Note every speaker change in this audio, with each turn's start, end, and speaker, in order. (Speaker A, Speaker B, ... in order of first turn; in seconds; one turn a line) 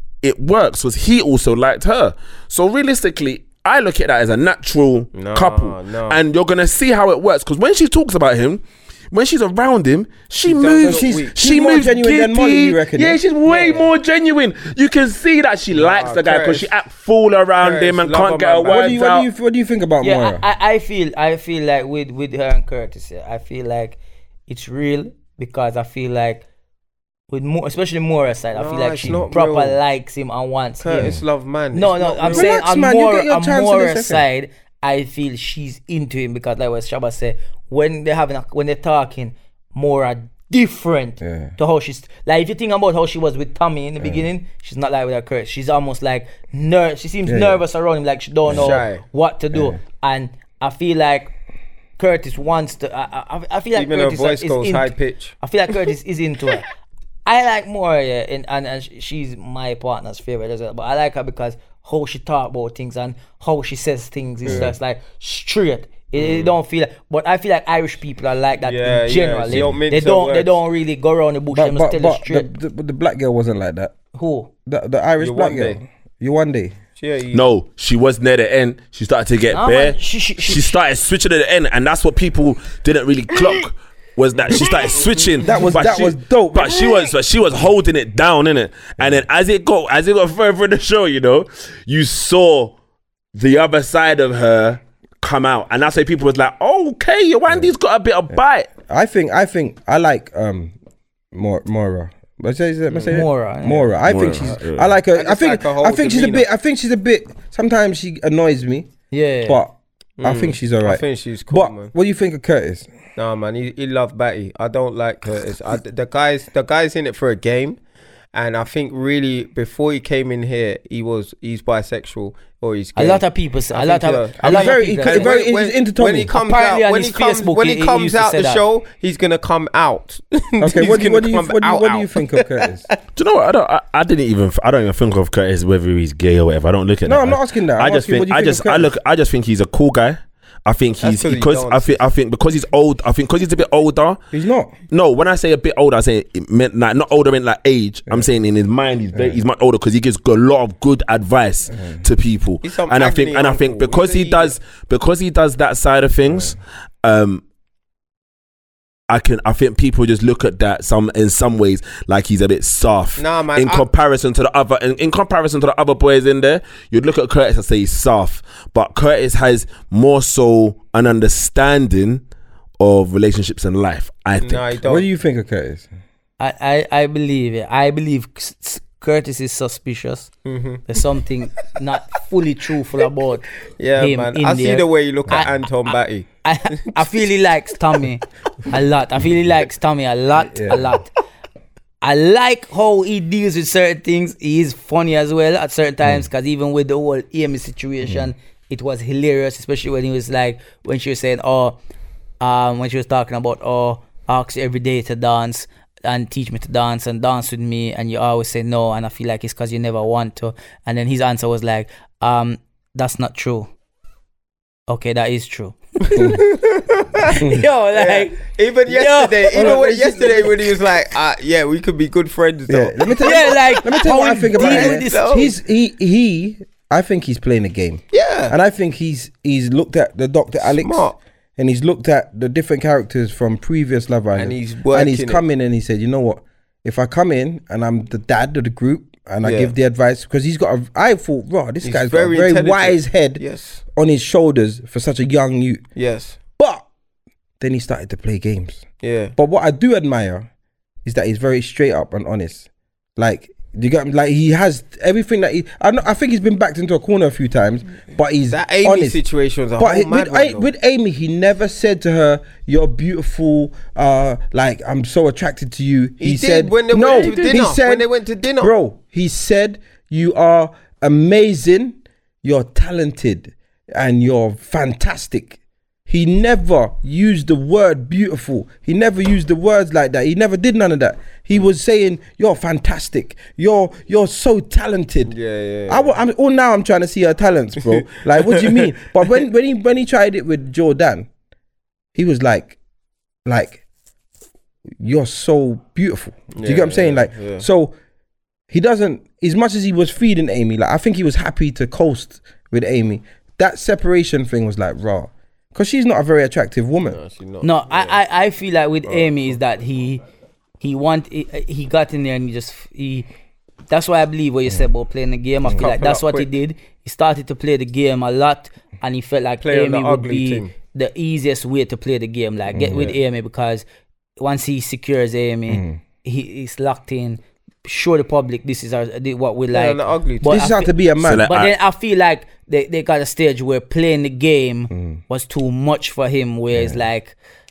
Speaker A: 0.2-19.3
Speaker B: 5.1-6.2
Speaker B: 10.4-11.3
Speaker C: 10.8-13.2
Speaker D: 13.5-13.8
Speaker B: 15.7-16.7
Speaker B: 17.6-18.9
Speaker C: 18.7-20.4
Speaker D: 20.0-24.0
Speaker D: 24.5-26.4
Speaker D: 27.3-31.2
Speaker B: 28.5-29.8
Speaker B: 30.8-32.5
Speaker C: 30.9-31.2
Speaker D: 31.7-51.3
Speaker C: 32.3-34.2
Speaker C: 41.2-41.5
Speaker C: 44.0-44.2
Speaker C: 47.2-47.6
Speaker C: 48.5-48.8
Speaker B: 48.5-49.0
Speaker C: 49.5-49.8
Speaker D: 52.0-56.7
Speaker B: 53.7-55.4
Speaker D: 57.2-72.5
Speaker C: 64.5-64.7
Speaker B: 66.2-66.5
Speaker B: 68.6-70.6
Speaker A: 69.5-69.8
Speaker C: 71.5-73.9
Speaker D: 74.1-74.5
Speaker C: 74.7-76.8
Speaker B: 75.2-75.8
Speaker B: 77.0-77.4
Speaker A: 77.3-92.7
Speaker D: 79.5-80.7
Speaker C: 85.4-86.9
Speaker A: 93.3-98.7
Speaker C: 98.8-100.7
Speaker C: 101.3-108.9
Speaker B: 102.9-103.2
Speaker D: 103.1-103.9
Speaker A: 104.0-104.9
Speaker B: 105.1-106.4
Speaker D: 109.1-109.6
Speaker C: 109.5-112.9
Speaker B: 110.2-111.9
Speaker B: 113.2-117.8
Speaker B: 118.3-132.9
Speaker D: 123.0-125.3
Speaker C: 124.4-126.3
Speaker D: 126.3-128.6
Speaker C: 130.6-132.8
Speaker A: 133.1-144.2
Speaker C: 137.1-138.9
Speaker B: 141.0-142.0
Speaker C: 144.3-144.7
Speaker A: 144.9-157.4
Speaker C: 149.1-149.4
Speaker C: 151.8-152.0
Speaker B: 152.6-154.6
Speaker A: 159.1-172.2
Speaker B: 163.2-163.8
Speaker A: 172.8-174.8
Speaker B: 174.4-175.0
Speaker C: 174.8-175.9
Speaker D: 176.4-180.3
Speaker B: 180.4-180.8
Speaker D: 180.8-191.1
Speaker B: 183.8-187.0
Speaker C: 190.5-191.0
Speaker D: 192.0-201.8
Speaker D: 202.4-213.7
Speaker D: 214.9-216.4
Speaker B: 216.1-217.3
Speaker D: 217.2-219.8
Speaker B: 217.9-225.5
Speaker C: 219.5-220.7
Speaker C: 222.7-243.4
Speaker D: 223.2-225.5
Speaker B: 228.1-228.5
Speaker B: 230.8-231.2
Speaker B: 234.3-235.4
Speaker B: 239.4-239.7
Speaker B: 241.8-243.8
Speaker C: 243.9-245.8
Speaker B: 245.9-246.4
Speaker C: 246.6-246.8
Speaker C: 247.6-248.8
Speaker B: 249.0-249.3
Speaker C: 249.3-250.5
Speaker C: 251.0-259.2
Speaker B: 258.5-260.7
Speaker C: 259.8-268.1
Speaker B: 266.2-268.7
Speaker A: 267.0-267.4
Speaker C: 268.6-285.4
Speaker B: 285.3-286.1
Speaker C: 285.9-291.3
Speaker B: 288.6-288.9
Speaker C: 292.1-292.7
Speaker C: 293.4-293.8
Speaker C: 295.0-297.9
Speaker B: 296.5-297.6
Speaker C: 298.7-307.2
Speaker B: 307.1-308.2
Speaker D: 307.6-310.2
Speaker B: 309.1-309.6
Speaker D: 310.8-313.3
Speaker D: 313.9-323.8
Speaker B: 315.7-316.5
Speaker B: 319.6-320.7
Speaker C: 322.7-323.1
Speaker D: 324.4-337.4
Speaker C: 325.7-326.0
Speaker B: 329.7-330.6
Speaker C: 330.4-331.5
Speaker A: 331.2-331.7
Speaker C: 334.9-335.2